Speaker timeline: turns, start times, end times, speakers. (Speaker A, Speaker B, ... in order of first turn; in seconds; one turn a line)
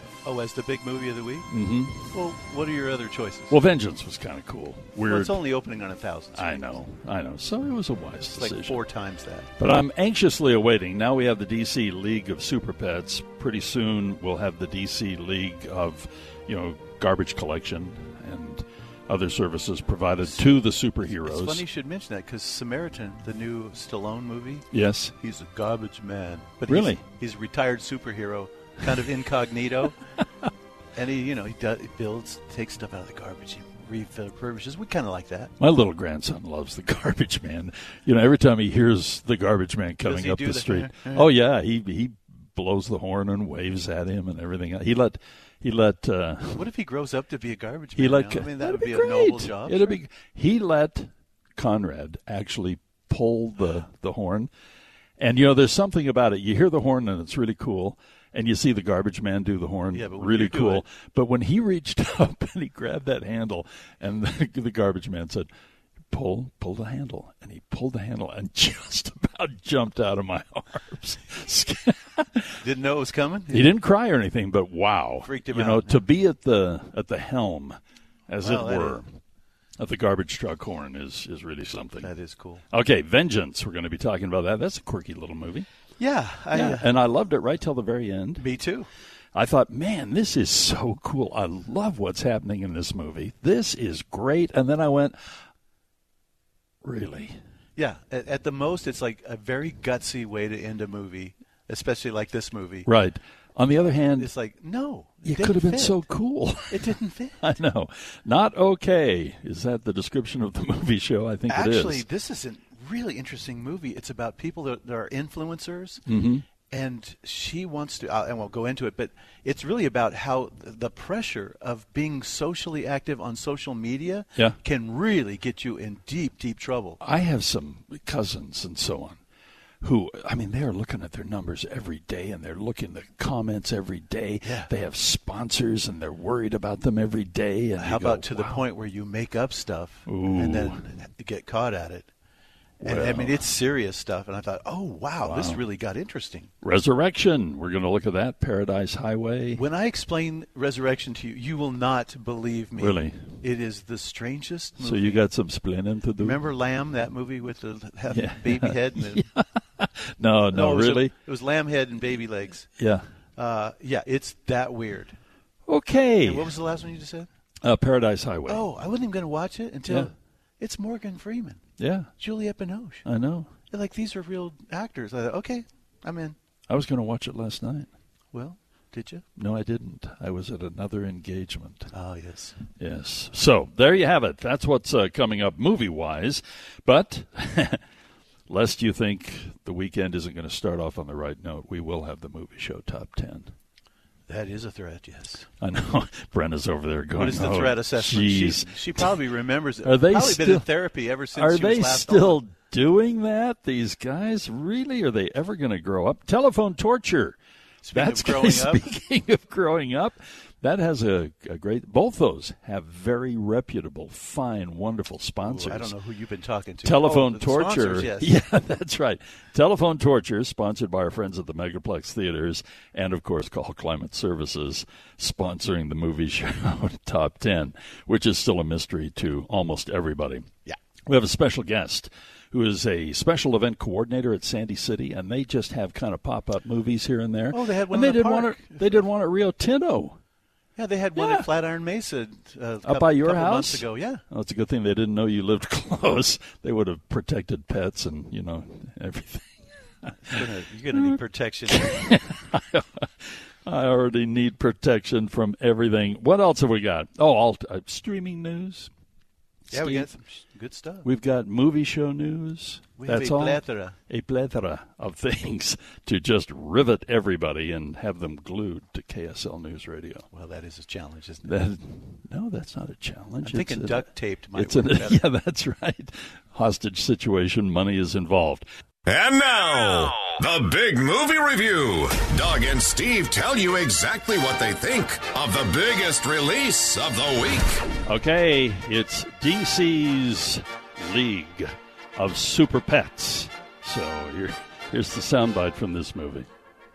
Speaker A: 0.2-1.5
Speaker B: 1.5-2.1
Speaker A: 2.1-3.5
Speaker B: 3.5-5.4
Speaker A: 5.1-6.7
Speaker B: 6.3-8.8
Speaker A: 8.4-9.5
Speaker B: 9.6-21.6
Speaker A: 21.1-24.6
Speaker B: 24.7-25.1
Speaker A: 25.2-29.9
Speaker B: 26.7-27.0
Speaker A: 30.9-35.5
Speaker B: 35.6-46.7
Speaker A: 40.0-41.2
Speaker A: 46.5-50.0
Speaker B: 48.0-54.5
Speaker B: 55.2-65.5
Speaker A: 59.9-60.8
Speaker B: 66.1-72.5
Speaker A: 72.6-73.7
Speaker B: 73.5-77.8
Speaker A: 75.2-76.0
Speaker B: 78.3-79.1
Speaker A: 78.4-79.0
Speaker B: 79.8-82.1
Speaker A: 82.0-82.6
Speaker B: 82.7-85.7
Speaker A: 86.0-86.9
Speaker B: 86.5-88.5
Speaker A: 88.4-88.9
Speaker B: 89.3-95.2
Speaker B: 96.8-97.4
Speaker A: 97.8-102.9
Speaker B: 102.8-104.3
Speaker A: 104.2-106.0
Speaker B: 105.2-112.0
Speaker A: 106.7-107.4
Speaker A: 111.5-116.0
Speaker B: 116.1-116.4
Speaker A: 116.7-127.0
Speaker B: 127.0-129.2
Speaker B: 129.8-138.6
Speaker A: 137.8-142.1
Speaker B: 140.1-140.8
Speaker A: 142.8-146.5
Speaker B: 142.8-143.5
Speaker B: 145.2-145.6
Speaker B: 146.6-149.6
Speaker A: 149.5-155.2
Speaker B: 152.8-153.4
Speaker B: 154.8-156.4
Speaker A: 156.2-159.2
Speaker B: 158.1-161.1
Speaker A: 160.5-162.7
Speaker B: 162.8-163.0
Speaker A: 163.4-165.2
Speaker B: 165.7-166.5
Speaker A: 166.2-167.3
Speaker B: 167.6-168.7
Speaker A: 168.5-171.6
Speaker B: 171.8-172.1
Speaker A: 172.2-173.0
Speaker B: 173.0-173.5
Speaker A: 173.7-176.3
Speaker B: 176.7-177.9
Speaker A: 178.3-179.2
Speaker B: 179.4-181.9
Speaker A: 181.9-182.6
Speaker B: 182.8-187.8
Speaker B: 188.5-193.5
Speaker A: 194.3-195.5
Speaker B: 195.6-199.1
Speaker A: 197.2-202.4
Speaker B: 199.8-200.7
Speaker B: 201.3-207.4
Speaker A: 207.8-208.8
Speaker B: 207.9-215.9
Speaker A: 215.4-218.3
Speaker B: 216.8-230.5
Speaker B: 231.1-240.2
Speaker A: 237.5-239.0
Speaker A: 240.8-244.2
Speaker B: 241.2-241.5
Speaker B: 242.8-249.4
Speaker B: 250.0-251.2
Speaker A: 250.2-252.0
Speaker B: 251.7-258.9
Speaker B: 259.7-260.1
Speaker A: 259.7-261.1
Speaker B: 261.0-270.2
Speaker A: 263.0-263.9
Speaker A: 270.3-271.5
Speaker B: 271.4-278.6
Speaker A: 273.4-275.2
Speaker C: 279.1-287.8
Speaker B: 288.1-296.5